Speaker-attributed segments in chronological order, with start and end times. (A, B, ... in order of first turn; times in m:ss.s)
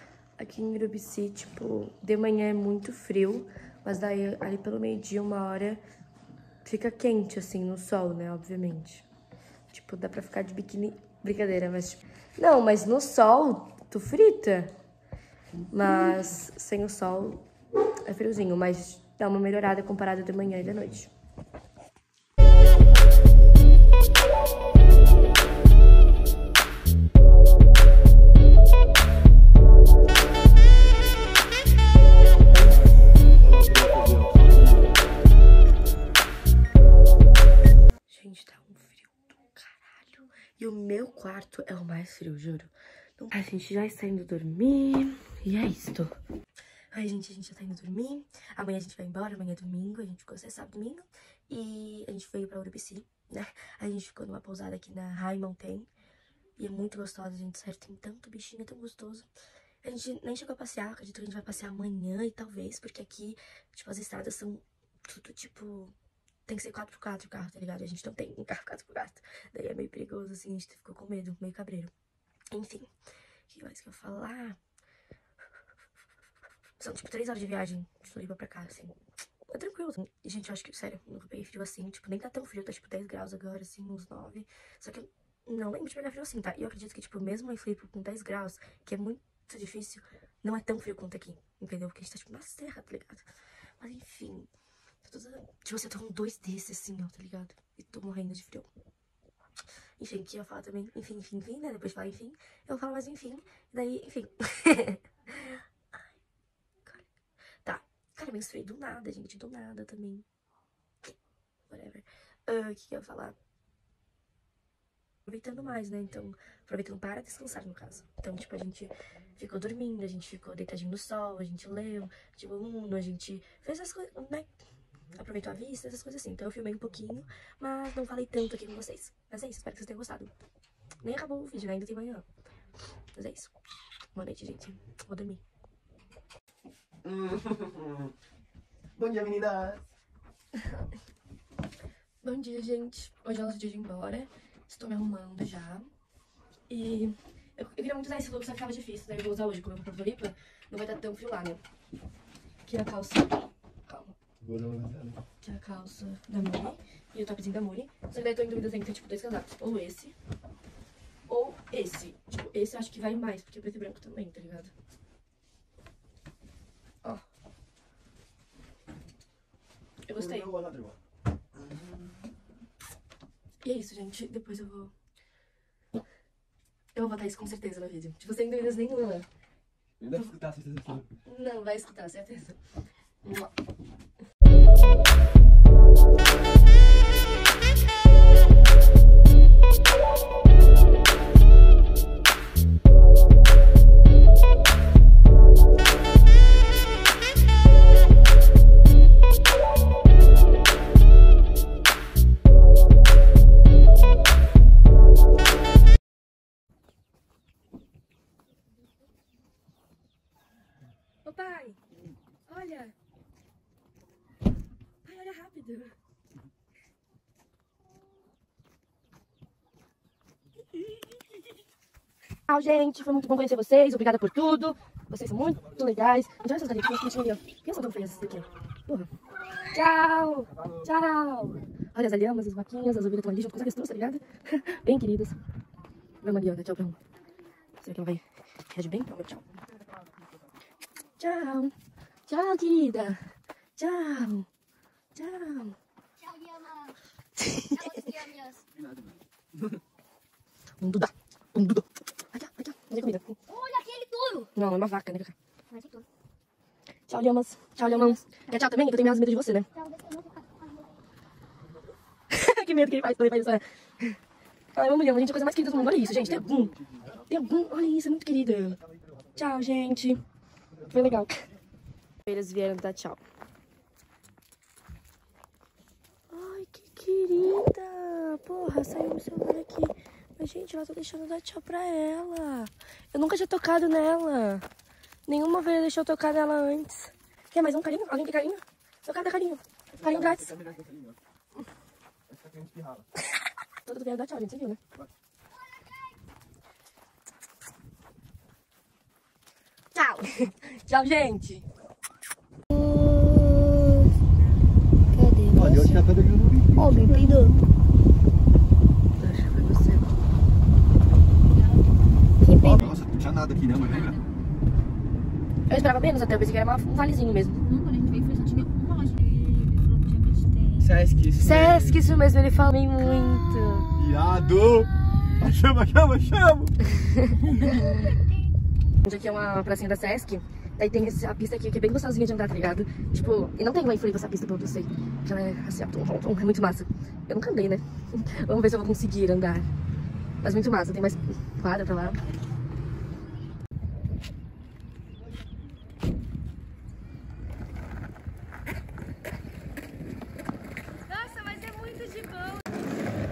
0:00.4-0:05.8 A
0:06.6-0:09.0 A
0:09.7-0:14.7 A
0:15.7-0:17.4 A
0:18.0-0:21.1 A
0:33.4-0:34.6 B
0:38.1-0:46.1 A
0:46.9-0:55.9 A
0:56.6-0:59.3 A
0:59.8-1:05.9 A
1:06.5-1:11.9 A
1:12.5-1:12.9 A
1:13.5-1:14.6 A
1:16.8-1:19.0 A
1:19.5-1:33.2 A
1:33.8-1:34.5 A
1:35.0-1:38.7 A
1:40.0-1:45.6 A
1:46.8-1:47.1 A
1:47.6-1:50.2 A
1:51.7-1:53.4 A
1:55.3-2:04.5 A
2:05.1-2:10.3 A
2:11.0-2:12.2 A
2:13.1-2:13.5 A
2:14.1-2:15.4 A
2:17.0-2:18.1 B
2:19.0-2:19.8 B
2:22.2-2:25.9 A
2:26.7-2:31.6 A
2:32.6-2:34.2 A
2:34.4-2:35.2 B
2:35.4-2:40.2 A
2:41.3-2:44.7 A
2:50.0-2:50.5 A
2:50.3-2:51.0 B
2:53.6-2:54.9 A
2:56.9-2:59.3 A
3:00.0-3:01.1 B
3:01.2-3:02.6 A
3:03.2-3:03.5 A
3:31.2-3:31.8 A
3:32.5-3:32.9 A
3:35.0-3:35.9 A
3:42.5-3:49.1 A
3:49.6-3:55.4 A
3:56.2-3:57.0 A
3:57.8-3:59.6 A
4:01.2-4:01.7 A
4:02.2-4:04.5 A
4:05.1-4:05.8 A
4:06.3-4:07.0 C
4:07.4-4:08.2 A
4:07.7-4:08.6 C
4:10.8-4:13.4 A
4:13.5-4:14.5 C
4:14.5-4:15.3 A
4:15.7-4:16.0 C
4:17.1-4:19.7 A
4:19.8-4:20.9 C
4:22.3-4:24.2 A
4:24.7-4:28.8 A
4:29.3-4:30.2 A
4:30.8-4:31.4 A
4:32.2-4:33.2 A
4:36.3-4:44.6 A
4:45.2-4:50.5 A
4:50.0-4:51.1 B
4:52.3-4:53.0 B
4:53.8-4:54.8 A
4:59.9-5:01.6 A
5:02.7-5:04.1 D
5:05.1-5:06.0 D
5:05.5-5:07.2 B
5:06.8-5:07.5 D
5:09.2-5:10.1 A
5:11.5-5:11.8 C
5:12.4-5:12.9 D
5:12.6-5:14.2 B
5:13.9-5:14.2 C
5:15.7-5:17.6 A
5:17.6-5:21.0 C
5:20.8-5:22.0 B
5:21.3-5:23.9 A
5:24.0-5:26.8 B
5:26.9-5:28.1 A
5:29.0-5:39.7 A
5:40.4-5:42.2 A
5:51.1-5:52.7 A